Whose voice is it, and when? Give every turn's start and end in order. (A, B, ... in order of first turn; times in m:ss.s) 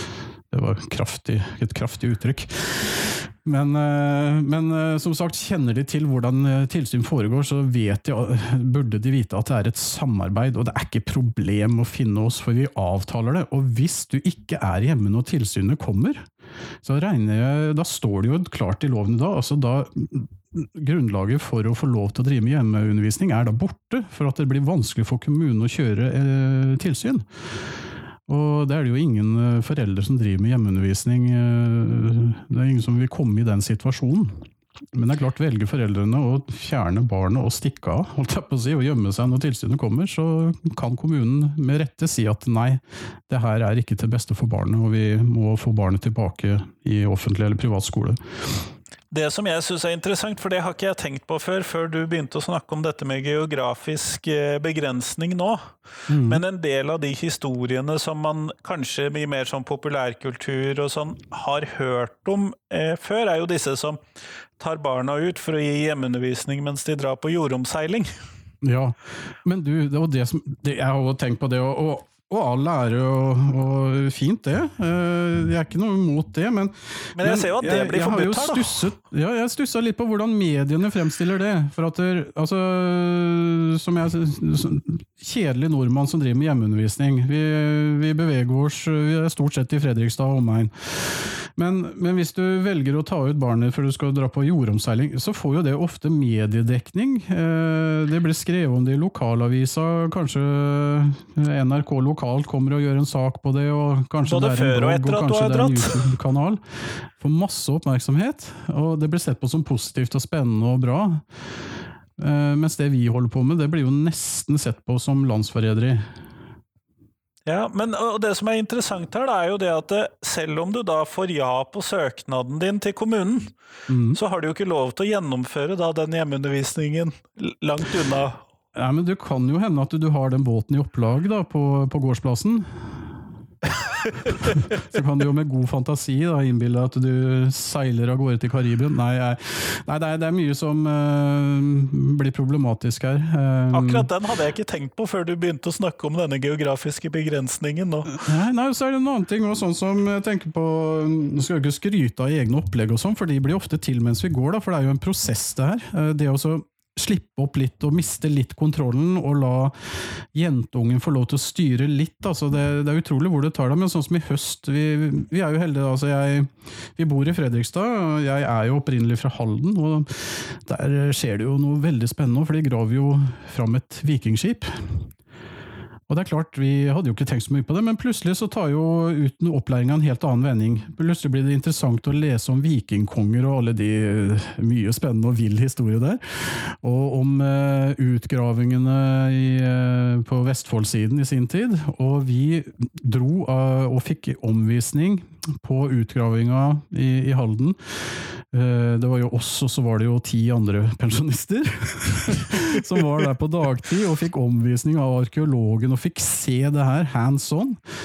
0:00.5-0:16.3 A
0:16.8-0:27.3 A
0:28.3-0:48.6 A
0:49.1-1:04.0 B
0:56.1-0:56.4 A
1:04.6-1:08.1 B
1:08.6-1:46.6 A
1:17.2-1:18.9 B
1:44.3-1:46.1 B
1:47.2-1:51.2 A
1:52.2-1:56.0 A
1:57.5-2:03.5 B
2:03.9-2:04.2 A
2:04.1-2:08.4 B
2:08.8-2:13.1 A
2:14.2-2:14.5 B
2:14.5-2:24.1 A
2:23.7-2:28.2 B
2:28.1-2:55.1 A
2:56.1-3:27.8 A